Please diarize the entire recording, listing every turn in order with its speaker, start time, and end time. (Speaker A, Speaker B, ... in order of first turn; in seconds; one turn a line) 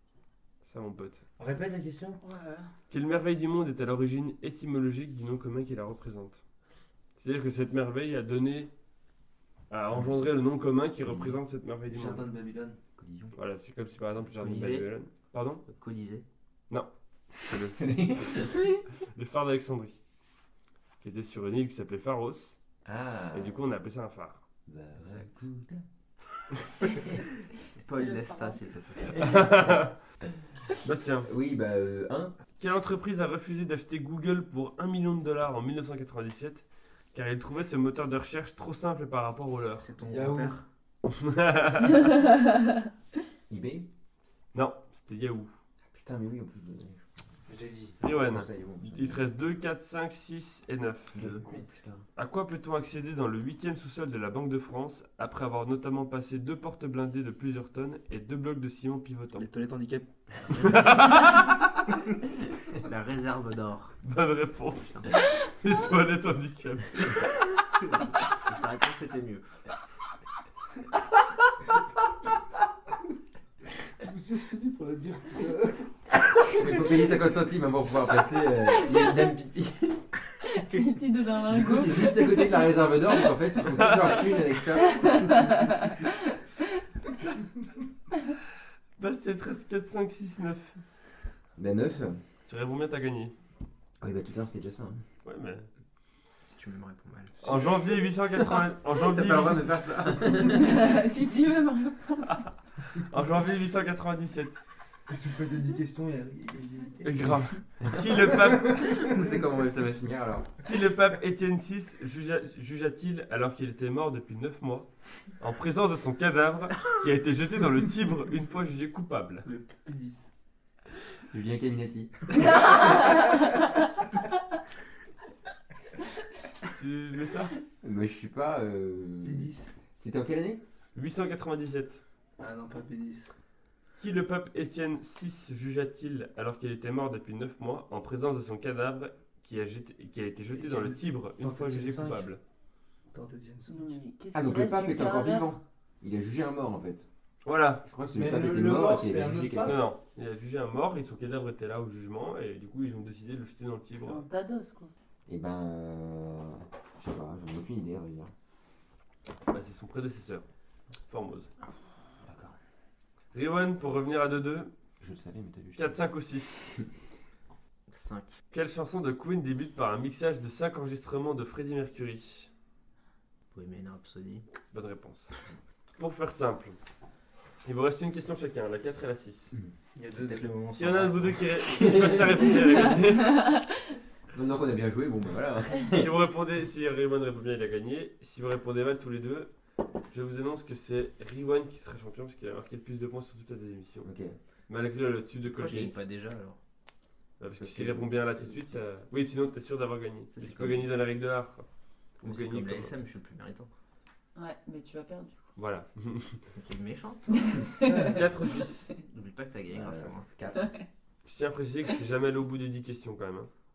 Speaker A: 0.6-1.2
Speaker B: 1.4-2.2
Speaker C: 2.2-2.7
Speaker A: 2.9-6.4
Speaker A: 7.2-8.7
Speaker A: 9.7-12.2
Speaker D: 9.9-10.3
Speaker D: 11.0-11.4
Speaker B: 11.9-12.8
Speaker D: 13.0-13.3
Speaker A: 13.3-15.6
Speaker E: 14.4-14.9
Speaker E: 15.7-16.2
Speaker A: 16.7-18.6
Speaker D: 17.7-18.6
Speaker A: 19.1-20.0
Speaker A: 21.0-22.6
Speaker D: 22.8-23.6
Speaker A: 23.3-24.4
Speaker D: 24.7-25.8
Speaker E: 25.0-25.4
Speaker E: 27.8-29.6
Speaker C: 27.9-28.6
Speaker A: 29.2-29.9
Speaker A: 30.8-31.3
Speaker D: 31.2-32.3
Speaker A: 32.6-36.6
Speaker A: 37.1-39.9
Speaker E: 39.8-40.6
Speaker B: 40.0-40.6
Speaker A: 41.0-42.0
Speaker D: 43.5-43.9
Speaker A: 44.5-45.5
Speaker D: 45.8-47.2
Speaker B: 47.5-48.0
Speaker A: 48.0-51.2
Speaker D: 48.0-49.2
Speaker D: 51.1-52.0
Speaker E: 51.1-51.6
Speaker A: 52.1-59.4
Speaker B: 59.4-60.8
Speaker E: 60.5-61.4
Speaker A: 60.6-61.6
Speaker E: 62.8-64.0
Speaker A: 64.0-67.3
Speaker E: 64.8-65.1
Speaker E: 67.8-69.4
Speaker B: 74.0-75.9
Speaker D: 76.4-80.0
Speaker C: 78.6-79.3
Speaker C: 80.4-83.3
Speaker D: 81.5-85.5
Speaker C: 84.8-86.1
Speaker A: 89.0-90.8
Speaker D: 91.5-92.2
Speaker A: 92.5-93.3
Speaker D: 94.0-95.0
Speaker A: 95.2-95.7
Speaker E: 96.5-97.4
Speaker B: 97.4-97.9
Speaker A: 97.4-99.8
Speaker D: 98.9-100.8
Speaker C: 100.4-102.5
Speaker A: 102.9-104.6
Speaker B: 105.1-107.5
Speaker A: 107.0-109.2
Speaker D: 107.9-110.5
Speaker A: 110.6-119.5
Speaker B: 119.4-120.3
Speaker D: 121.3-122.8
Speaker C: 122.5-123.4
Speaker A: 126.7-127.5
Speaker D: 127.8-130.6
Speaker B: 129.2-129.7
Speaker A: 130.9-132.0
Speaker B: 132.4-133.3
Speaker A: 134.0-142.4
Speaker B: 140.5-142.3
Speaker B: 143.1-143.9
Speaker C: 143.7-145.5
Speaker D: 144.3-147.1
Speaker A: 147.4-147.8
Speaker D: 147.8-149.6
Speaker B: 148.1-149.8
Speaker A: 149.3-154.2
Speaker C: 154.0-154.9
Speaker D: 155.3-158.3
Speaker A: 159.5-160.4
Speaker A: 161.1-161.5
Speaker D: 162.2-162.6
Speaker A: 163.3-164.7
Speaker D: 165.0-166.0
Speaker A: 165.8-166.8
Speaker E: 167.9-168.3
Speaker A: 168.5-172.5
Speaker E: 173.5-174.5
Speaker A: 174.7-175.4
Speaker A: 175.9-176.8
Speaker A: 177.6-179.6
Speaker B: 179.9-180.5
Speaker E: 180.2-182.5
Speaker A: 180.7-183.4
Speaker D: 181.7-182.4
Speaker C: 183.3-183.6
Speaker D: 184.3-186.1
Speaker A: 185.9-189.5
Speaker A: 190.1-194.1
Speaker D: 194.0-194.4
Speaker A: 194.7-195.9
Speaker E: 195.5-196.6
Speaker A: 197.4-201.7
Speaker D: 197.6-198.7
Speaker E: 200.3-200.9
Speaker A: 202.2-202.9
Speaker E: 202.2-203.7
Speaker C: 204.3-205.4
Speaker A: 205.6-206.4
Speaker E: 206.6-207.7
Speaker C: 207.4-208.2
Speaker B: 207.8-208.2
Speaker A: 207.9-208.9
Speaker E: 209.1-210.3
Speaker D: 209.7-210.7
Speaker A: 211.2-213.5